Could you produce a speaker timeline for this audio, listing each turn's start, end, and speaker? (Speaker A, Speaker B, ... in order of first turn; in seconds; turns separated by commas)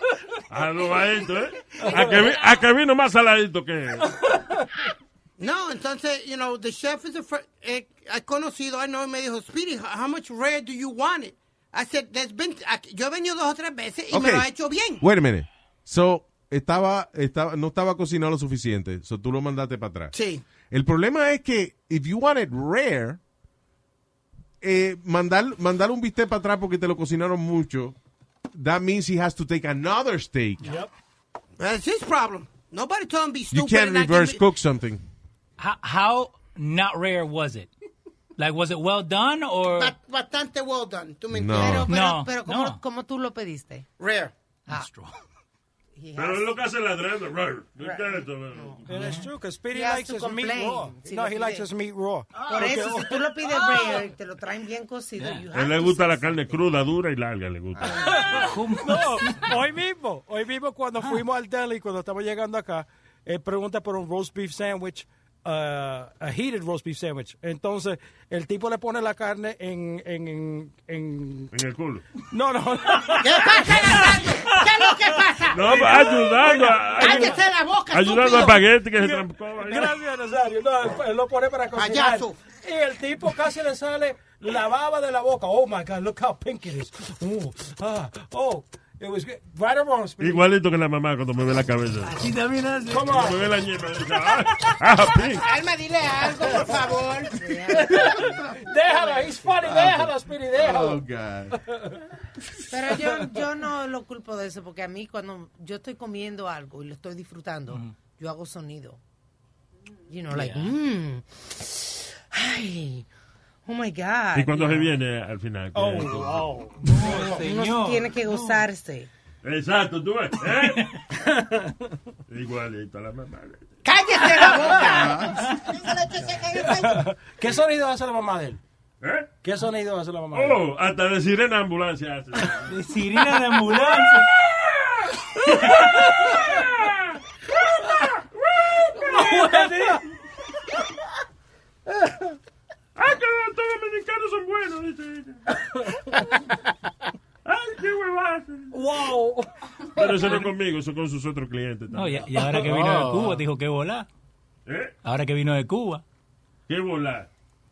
Speaker A: 0.5-4.1, Speaker B: 1.8-2.3, Speaker C: 5.4-15.0, Speaker D: 14.1-14.5, Speaker D: 15.0-20.1, Speaker C: 20.1-20.4, Speaker D: 20.7-23.2, Speaker D: 24.6-27.9, Speaker D: 28.5-30.8, Speaker B: 30.6-30.9, Speaker C: 31.6-34.4, Speaker D: 33.5-35.0, Speaker E: 35.6-37.7, Speaker E: 38.4-40.0, Speaker C: 39.7-41.9, Speaker D: 41.3-41.9, Speaker F: 41.8-43.9, Speaker E: 41.9-42.8, Speaker C: 44.0-44.3, Speaker E: 44.7-45.1, Speaker F: 46.0-46.5, Speaker A: 46.2-48.9, Speaker F: 47.8-49.0, Speaker B: 48.9-53.3, Speaker E: 48.9-49.3, Speaker F: 49.7-51.7, Speaker F: 52.5-56.6, Speaker E: 55.2-55.5, Speaker A: 55.5-58.2, Speaker B: 57.9-71.5, Speaker E: 58.3-59.5, Speaker A: 71.5-72.0, Speaker B: 72.3-74.0, Speaker C: 73.2-78.6, Speaker A: 75.5-77.4, Speaker B: 75.9-77.4, Speaker A: 77.9-79.9, Speaker B: 79.0-90.4, Speaker C: 81.7-82.4, Speaker A: 90.2-92.2, Speaker E: 92.1-93.2, Speaker B: 92.9-93.5, Speaker A: 93.0-95.5, Speaker C: 95.4-97.4, Speaker F: 97.4-99.4, Speaker B: 97.8-101.0, Speaker D: 99.7-101.6, Speaker F: 102.7-109.0, Speaker F: 110.1-113.1, Speaker E: 110.3-110.7, Speaker F: 113.7-114.9, Speaker A: 114.3-116.6, Speaker B: 115.8-117.0, Speaker E: 116.9-118.7, Speaker F: 117.0-119.1, Speaker A: 119.4-121.0, Speaker A: 122.3-123.6, Speaker C: 123.8-127.0, Speaker D: 124.8-125.3, Speaker B: 126.5-128.6, Speaker A: 129.0-129.3, Speaker B: 129.4-130.6, Speaker A: 130.3-132.8, Speaker E: 132.7-134.3, Speaker E: 135.7-136.2, Speaker A: 136.6-136.9, Speaker A: 138.4-139.5, Speaker E: 139.1-140.0, Speaker B: 139.4-139.7, Speaker A: 143.0-145.4, Speaker A: 147.5-148.8, Speaker B: 148.7-149.5, Speaker A: 150.0-152.6, Speaker E: 150.2-150.5, Speaker E: 151.9-154.1, Speaker A: 154.7-154.9, Speaker E: 155.0-156.0, Speaker A: 156.7-157.3